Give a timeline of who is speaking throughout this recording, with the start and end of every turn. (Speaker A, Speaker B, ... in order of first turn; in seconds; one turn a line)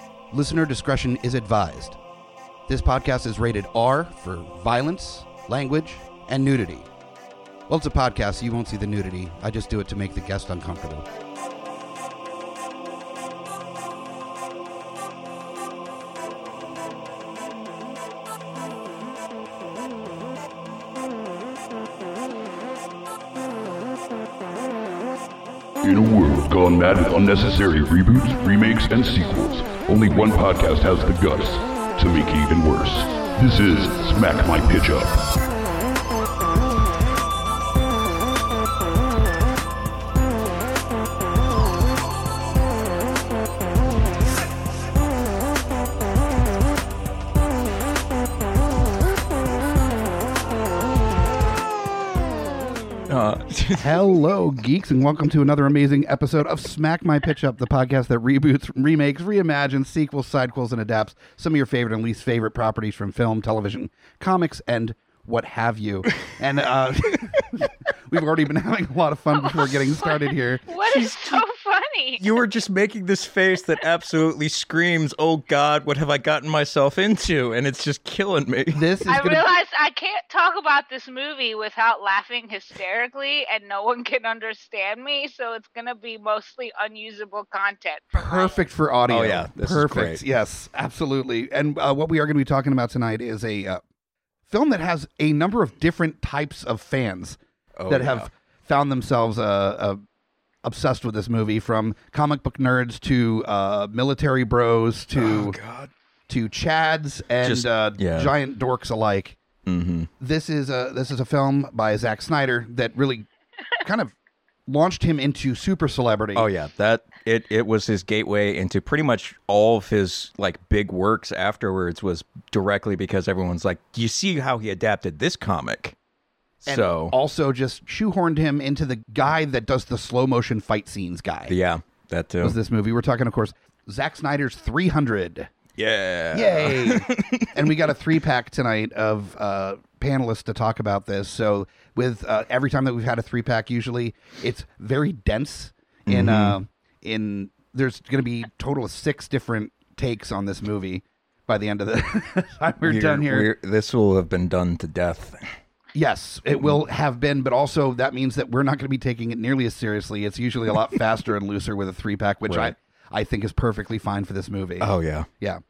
Speaker A: 0.3-2.0
Speaker A: 2.7-6.9
Speaker A: 7.7-11.1
Speaker B: 25.8-35.3
Speaker C: 53.1-54.2
Speaker A: 53.8-70.6
Speaker D: 69.5-72.3
Speaker C: 70.9-71.4
Speaker C: 72.2-78.8
Speaker A: 78.7-79.5
Speaker D: 79.1-88.6
Speaker A: 88.2-93.8
Speaker C: 89.1-90.2
Speaker A: 94.5-100.0
Speaker C: 97.8-98.3
Speaker A: 100.6-105.6
Speaker C: 105.2-105.9
Speaker A: 106.3-109.4
Speaker C: 107.4-108.3
Speaker C: 109.7-110.1
Speaker A: 110.2-113.3
Speaker A: 113.8-114.1
Speaker A: 114.7-116.5
Speaker C: 116.3-126.0
Speaker C: 126.7-127.2
Speaker A: 126.7-131.5
Speaker C: 131.5-132.6
Speaker A: 132.4-135.5
Speaker C: 135.8-137.9
Speaker A: 136.3-153.5
Speaker C: 146.1-146.6
Speaker C: 152.8-155.5
Speaker A: 155.9-165.6
Speaker C: 162.5-162.8
Speaker C: 164.8-165.3